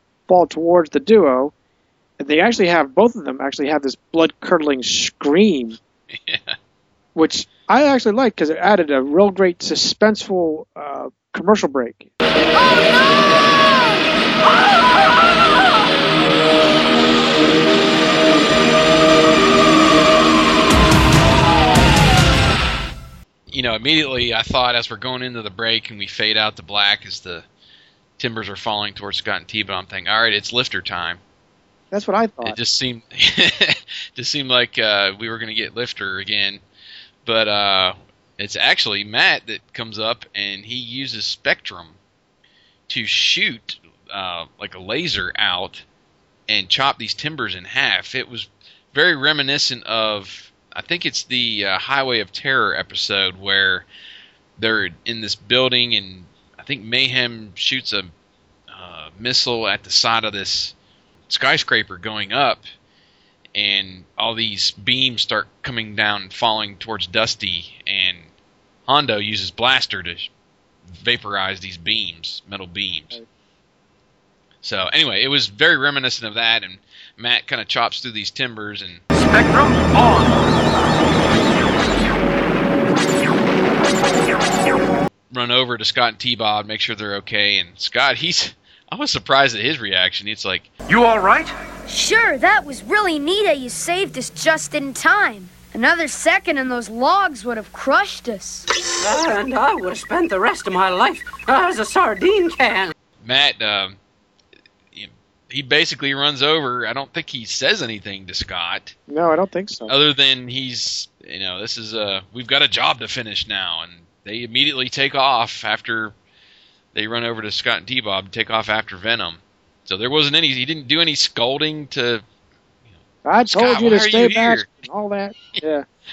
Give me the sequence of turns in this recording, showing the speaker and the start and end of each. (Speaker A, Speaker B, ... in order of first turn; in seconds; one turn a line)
Speaker A: 0.3-1.5
Speaker A: 2.2-5.8
Speaker B: 6.1-6.6
Speaker A: 7.2-12.1
Speaker B: 23.5-27.4
Speaker B: 28.2-31.2
Speaker A: 31.9-32.5
Speaker B: 32.4-36.6
Speaker B: 37.2-42.0
Speaker B: 42.9-45.8
Speaker B: 46.5-53.8
Speaker B: 54.6-58.1
Speaker B: 58.7-60.7
Speaker B: 61.3-62.6
Speaker B: 63.5-68.3
Speaker B: 68.9-70.3
Speaker B: 70.9-73.2
Speaker B: 74.6-79.0
Speaker C: 79.1-80.4
Speaker B: 85.3-90.7
Speaker C: 90.9-91.5
Speaker D: 91.9-98.7
Speaker E: 99.0-102.9
Speaker B: 103.2-104.0
Speaker B: 104.9-108.9
Speaker A: 109.1-109.9
Speaker B: 109.9-116.1
Speaker B: 116.9-122.2
Speaker A: 123.2-125.8
Speaker B: 123.5-124.7